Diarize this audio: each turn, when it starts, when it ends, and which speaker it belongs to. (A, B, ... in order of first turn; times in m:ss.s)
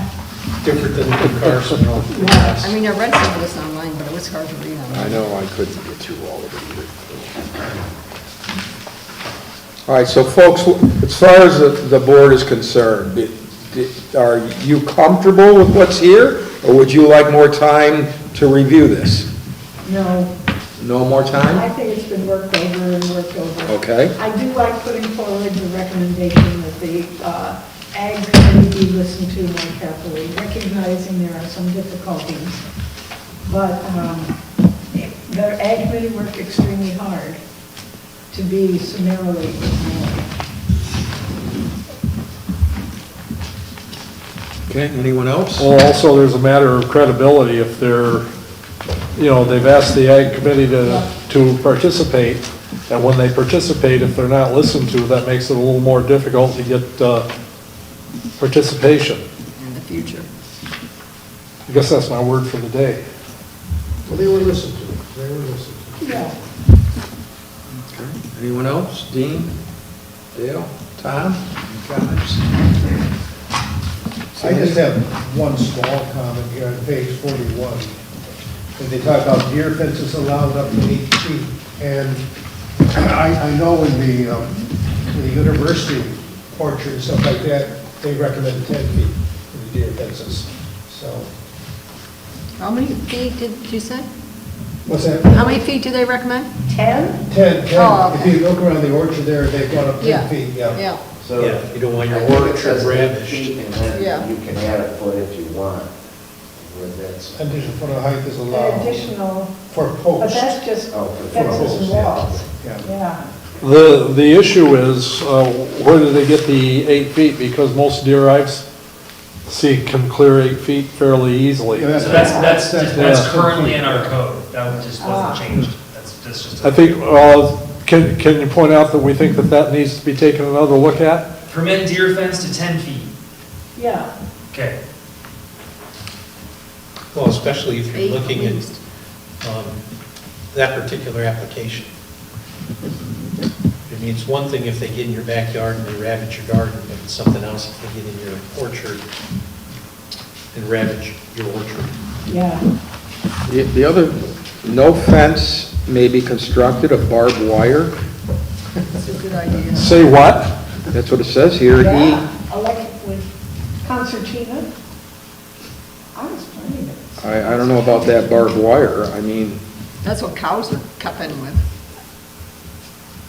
0:00.6-0:02.8 A
0:02.1-0:02.6 B
0:02.6-0:05.2 C
0:04.9-0:07.4 D
0:09.8-0:19.3 D
0:19.8-0:20.3 B
0:20.8-0:21.6 D
0:21.5-0:32.6 B
0:23.6-0:24.1 D
0:33.4-0:34.3 B
0:34.9-0:37.4 B
0:38.3-0:40.3 B
0:44.7-0:45.7 D
0:45.6-0:48.3 E
0:49.2-0:57.3 E
0:50.8-0:51.1 B
0:58.4-0:59.2 E
0:59.6-1:00.3 C
1:01.7-1:03.0 E
1:04.0-1:06.3 F
1:06.0-1:06.3 B
1:07.7-1:09.5 D
1:10.3-1:12.4 D
1:14.3-1:14.8 D
1:14.4-1:17.9 F
1:18.8-1:22.2 F
1:22.9-1:24.6 F
1:25.1-1:31.3 F
1:32.6-1:34.1 C
1:34.8-1:35.5 F
1:35.3-1:36.5 C
1:36.7-1:37.2 B
1:37.3-1:40.9 F
1:37.7-1:38.4 C
1:40.0-1:41.0 C
1:41.2-1:45.9 G
1:41.4-1:43.6 A
1:43.9-1:44.3 C
1:46.6-1:47.6 G
1:47.3-1:49.1 F
1:48.5-1:49.5 B
1:49.7-1:50.6 F
1:50.2-1:53.2 B
1:50.9-1:52.4 G
1:51.4-1:52.8 F
1:53.6-1:58.6 E
1:59.4-2:02.2 E
2:01.7-2:04.2 F
2:02.0-2:07.0 H
2:02.0-2:02.6 B
2:02.9-2:03.4 E
2:05.0-2:05.4 B
2:06.6-2:11.3 E
2:11.5-2:13.1 H
2:13.7-2:14.1 B
2:14.5-2:14.8 H
2:17.1-2:18.6 A
2:17.9-2:18.8 C
2:19.4-2:19.8 A
2:20.5-2:21.9 A
2:23.9-2:29.0 A
2:30.5-2:31.9 A
2:32.2-2:32.6 B
2:33.4-2:37.9 D
2:38.9-2:40.1 C
2:39.7-2:40.5 E
2:40.9-2:42.2 D
2:41.8-2:43.3 B
2:43.8-2:44.7 B
2:46.1-2:48.5 B
2:47.2-2:49.6 D
2:50.0-2:51.6 C